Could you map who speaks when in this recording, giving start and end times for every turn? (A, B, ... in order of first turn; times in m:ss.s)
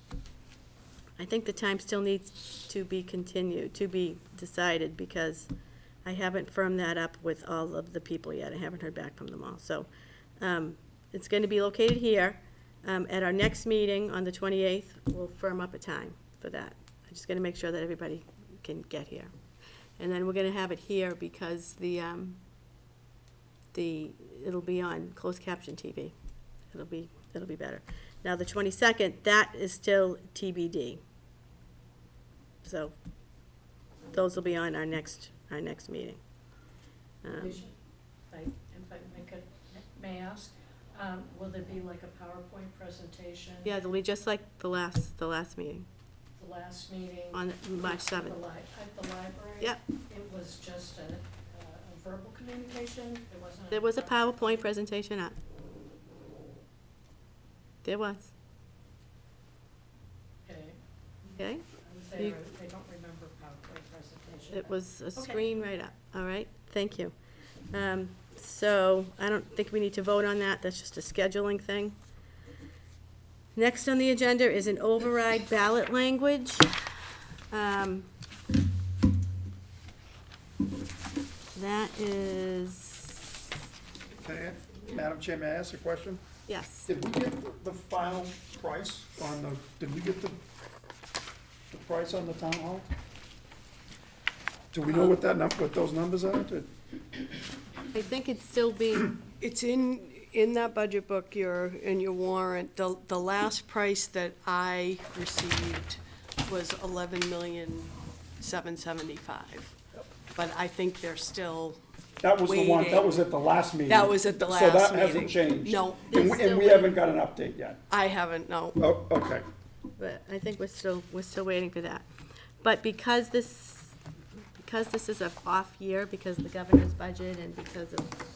0:01.2-0:05.5 A
0:06.0-0:09.9 A
0:10.4-0:19.3 A
0:20.0-0:22.4 A
0:23.7-0:26.1 A
0:26.7-0:31.0 A
0:32.6-0:32.9 A
0:34.1-0:36.2 A
0:37.2-0:37.6 A
0:37.4-0:37.7 B
0:38.3-0:43.7 B
0:43.6-0:45.8 A
0:46.4-0:54.6 B
0:47.3-0:48.4 A
0:53.7-0:55.4 A
0:57.8-0:58.3 A
1:00.4-1:00.8 B
1:01.4-1:02.4 A
1:01.8-1:05.4 B
1:04.5-1:07.1 A
1:07.7-1:12.0 A
1:13.6-1:16.7 A
1:17.5-1:18.1 A
1:21.6-1:23.3 A
1:24.2-1:26.2 C
1:26.5-1:26.9 A
1:26.9-1:30.4 C
1:31.7-1:32.9 C
1:34.7-1:36.7 C
1:37.9-1:39.2 A
1:39.4-1:49.7 D
1:50.4-1:51.8 D
1:52.2-1:57.8 C
1:52.4-1:53.3 D
1:53.9-1:56.1 D
1:56.1-1:56.9 A
1:57.9-1:58.8 D
1:58.8-1:59.5 C
2:00.0-2:02.1 A
2:02.6-2:04.0 A
2:04.6-2:08.1 A